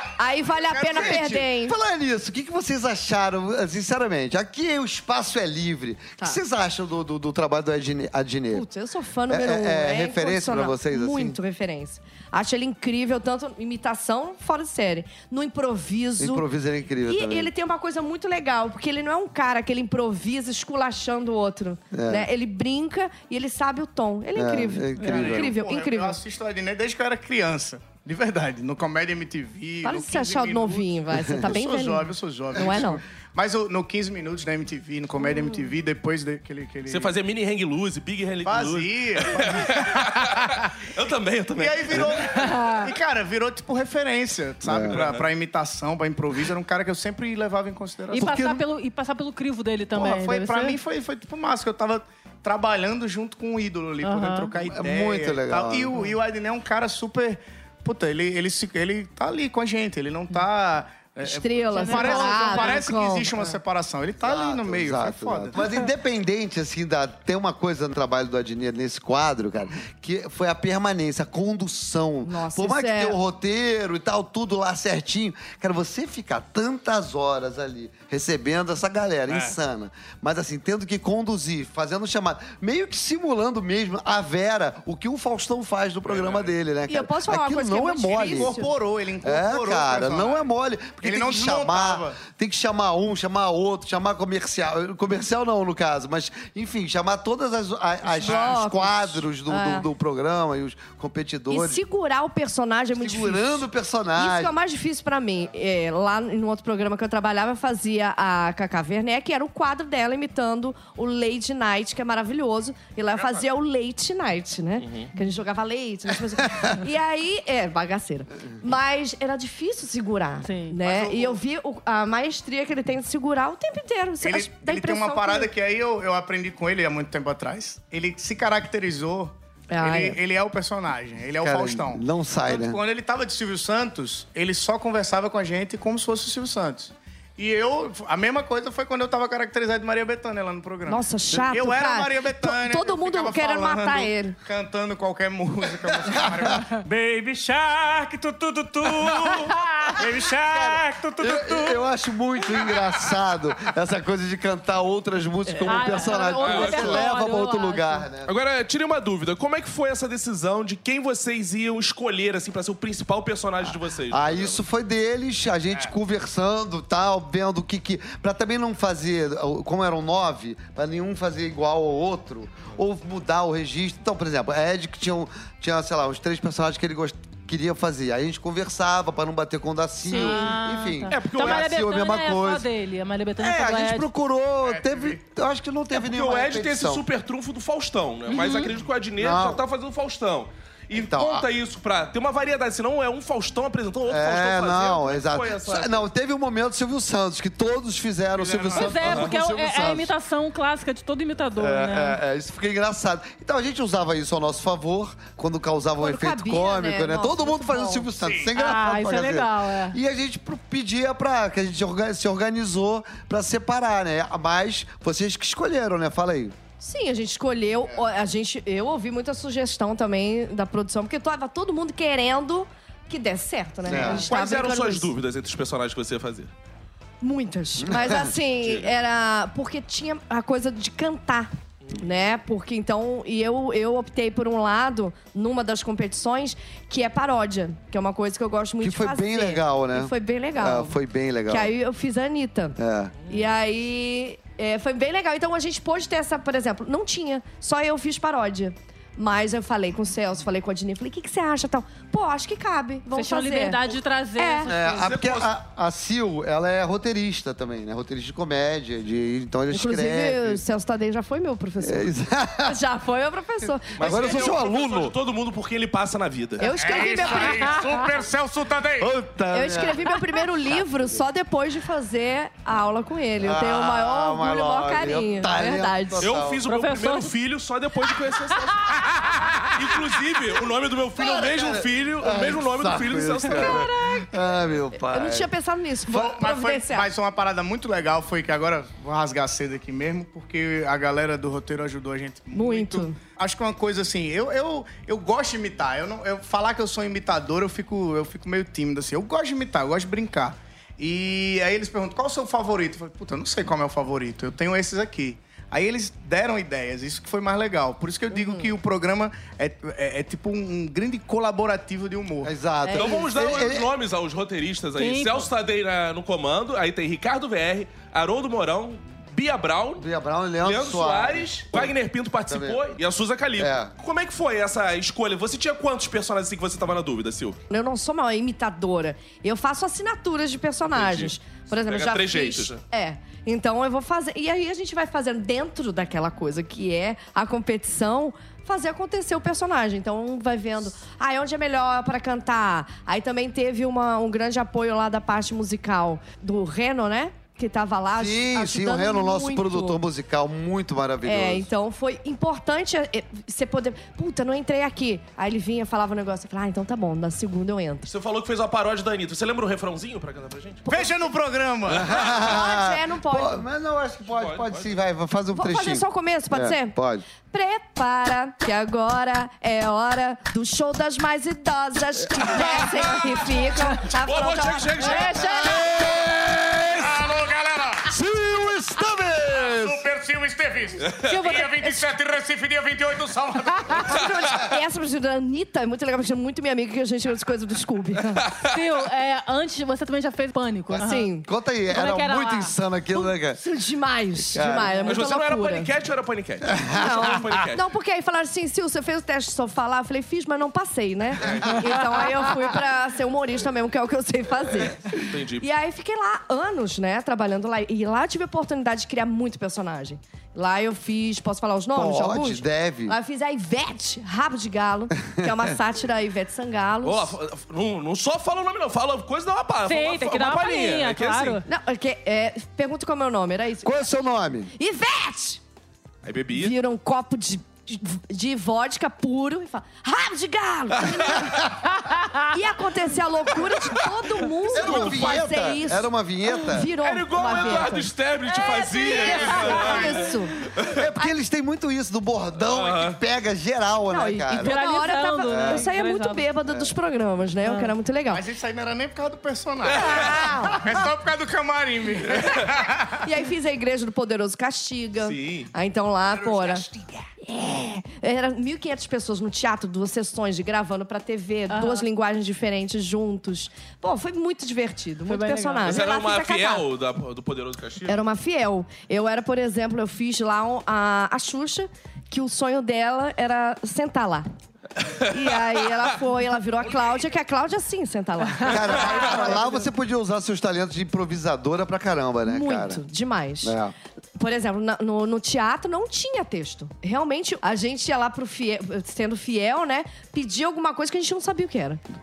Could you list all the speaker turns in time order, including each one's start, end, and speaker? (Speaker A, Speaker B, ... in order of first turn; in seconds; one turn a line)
Speaker A: 0.2-1.8
Speaker B: 0.6-1.4
Speaker C: 0.9-8.7
Speaker A: 8.5-16.4
Speaker C: 9.3-11.4
Speaker C: 16.2-17.5
Speaker A: 17.1-26.2
Speaker C: 21.9-22.3
Speaker C: 24.4-25.6
Speaker B: 25.0-37.1
Speaker A: 29.8-33.0
Speaker D: 36.9-42.5
Speaker B: 38.4-40.7
Speaker B: 41.6-48.5
Speaker E: 42.6-42.9
Speaker C: 44.6-45.0
Speaker D: 44.9-45.3
Speaker E: 48.1-50.8
Speaker C: 48.1-48.6
Speaker B: 49.9-65.6
Speaker E: 54.0-54.6
Speaker C: 54.7-56.0
Speaker A: 61.2-63.3
Speaker E: 61.7-62.9
Speaker C: 64.2-88.6
Speaker A: 72.2-73.2
Speaker B: 86.1-86.5
Speaker A: 86.9-88.7
Speaker B: 88.2-90.4
Speaker C: 89.2-101.8
Speaker B: 91.0-92.2
Speaker A: 98.0-99.9
Speaker B: 98.2-98.6
Speaker A: 101.5-125.5
Speaker C: 103.0-104.5
Speaker D: 114.8-115.1
Speaker E: 120.4-120.8
Speaker B: 120.8-121.4
Speaker B: 124.2-146.7
Speaker A: 129.7-130.2
Speaker C: 131.4-132.8
Speaker A: 140.9-144.4
Speaker C: 146.1-146.5
Speaker F: 146.8-151.8
Speaker C: 150.5-158.3
Speaker E: 155.6-158.1
Speaker D: 156.3-157.1
Speaker D: 158.2-164.6
Speaker C: 163.6-182.7
Speaker E: 180.0-184.1
Speaker D: 181.1-181.7
Speaker C: 183.4-187.0
Speaker B: 184.6-185.2
Speaker D: 185.9-196.1
Speaker E: 188.3-188.8
Speaker C: 189.2-189.6
Speaker C: 190.9-191.5
Speaker C: 194.1-200.1
Speaker B: 198.4-199.0
Speaker E: 198.7-202.2
Speaker D: 199.0-199.3
Speaker C: 201.6-216.6
Speaker A: 206.0-208.1
Speaker E: 208.5-210.0
Speaker A: 216.8-225.1
Speaker C: 223.8-224.3
Speaker D: 223.9-226.5
Speaker A: 227.2-241.0
Speaker C: 227.8-228.3
Speaker D: 228.6-228.9
Speaker C: 238.8-241.7
Speaker A: 241.5-253.8
Speaker C: 242.8-243.1
Speaker E: 253.1-255.0
Speaker A: 254.4-254.8
Speaker C: 254.7-260.6
Speaker D: 254.9-255.5
Speaker A: 259.7-264.6
Speaker C: 261.8-262.8
Speaker D: 264.0-266.7
Speaker C: 264.0-265.1
Speaker A: 266.6-267.9
Speaker G: 266.8-269.1
Speaker C: 269.0-271.1
Speaker A: 269.5-276.3
Speaker C: 273.4-276.6
Speaker D: 276.2-283.9
Speaker E: 276.6-277.4
Speaker E: 278.7-279.0
Speaker C: 281.2-285.5
Speaker A: 284.9-287.1
Speaker B: 286.1-312.5
Speaker A: 292.5-293.2
Speaker A: 308.3-308.7
Speaker C: 312.4-313.9
Speaker A: 312.8-313.3
Speaker D: 312.9-320.1
Speaker E: 315.0-315.5
Speaker C: 320.0-321.9
Speaker D: 320.6-327.6
Speaker C: 322.5-322.8
Speaker C: 323.6-323.9
Speaker A: 327.7-350.0
Speaker D: 330.9-332.8
Speaker C: 348.1-351.7
Speaker A: 351.2-358.1
Speaker D: 358.1-361.0
Speaker B: 360.9-362.2
Speaker C: 361.9-367.2
Speaker A: 362.2-363.6
Speaker D: 364.3-364.9
Speaker A: 365.5-367.0
Speaker A: 367.5-375.9
Speaker D: 374.1-375.9
Speaker C: 375.4-377.3
Speaker G: 376.9-378.1
Speaker C: 378.1-380.1
Speaker G: 379.6-384.3
Speaker E: 381.3-381.9
Speaker A: 383.9-388.5
Speaker D: 388.5-388.8
Speaker E: 388.7-391.3
Speaker A: 391.0-391.5
Speaker C: 391.4-393.6
Speaker E: 391.9-392.8
Speaker A: 393.1-395.9
Speaker C: 394.5-395.0
Speaker D: 395.1-397.8
Speaker C: 396.8-397.2
Speaker A: 396.9-417.4
Speaker D: 405.1-405.7
Speaker C: 411.9-413.2
Speaker D: 417.0-421.6
Speaker E: 419.9-421.6
Speaker A: 421.6-423.9
Speaker C: 423.8-424.7
Speaker A: 424.8-425.6
Speaker D: 426.2-426.8
Speaker A: 426.5-431.7
Speaker A: 432.4-440.6
Speaker C: 434.7-436.9
Speaker D: 434.8-435.4
Speaker D: 437.0-441.0
Speaker E: 438.5-440.1
Speaker B: 439.4-440.0
Speaker C: 440.9-444.8
Speaker D: 442.6-443.2
Speaker A: 444.1-448.4
Speaker E: 444.6-446.5
Speaker C: 445.5-445.9
Speaker C: 446.7-446.9
Speaker E: 447.6-447.9
Speaker B: 448.3-453.2
Speaker D: 449.9-450.5
Speaker A: 450.0-451.1
Speaker A: 453.2-456.9
Speaker D: 455.2-455.7
Speaker A: 457.4-466.9
Speaker E: 461.7-462.0
Speaker E: 465.3-466.0
Speaker D: 465.8-468.2
Speaker A: 468.1-474.5
Speaker A: 475.3-479.8
Speaker C: 478.6-483.0
Speaker A: 482.5-483.8
Speaker C: 483.6-483.9
Speaker A: 484.4-492.0